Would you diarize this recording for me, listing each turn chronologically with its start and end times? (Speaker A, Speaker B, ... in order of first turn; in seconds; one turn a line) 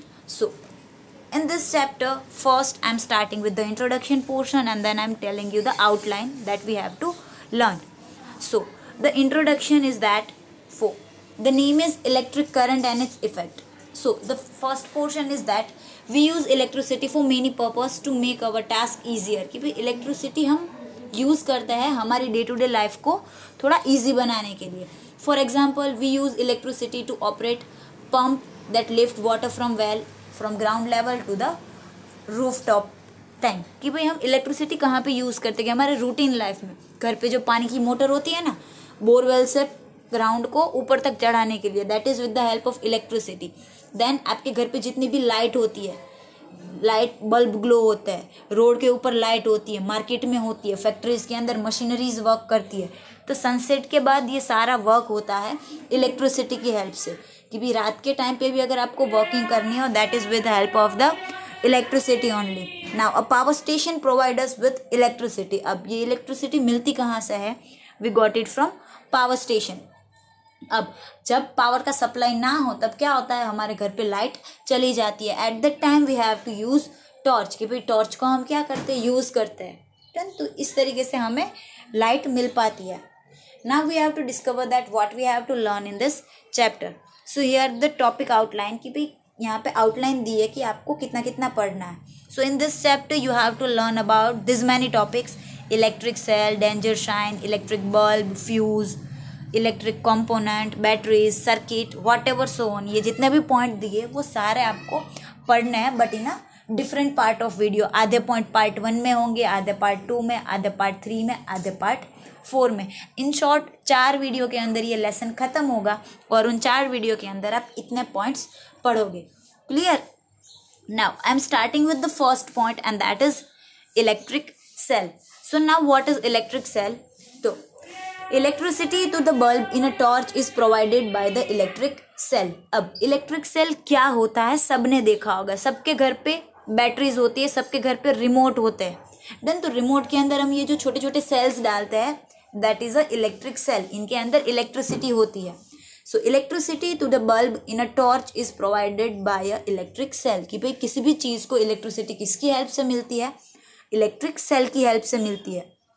Speaker A: 0.3-0.6
Speaker A: 1.3-7.8
Speaker A: 8.4-31.6
Speaker A: 32.3-46.0
Speaker A: 46.7-69.8
Speaker A: 70.7-83.0
Speaker A: 83.6-99.0
Speaker A: 99.5-120.0
Speaker A: 120.9-127.6
Speaker A: 128.3-153.3
Speaker A: 153.9-155.7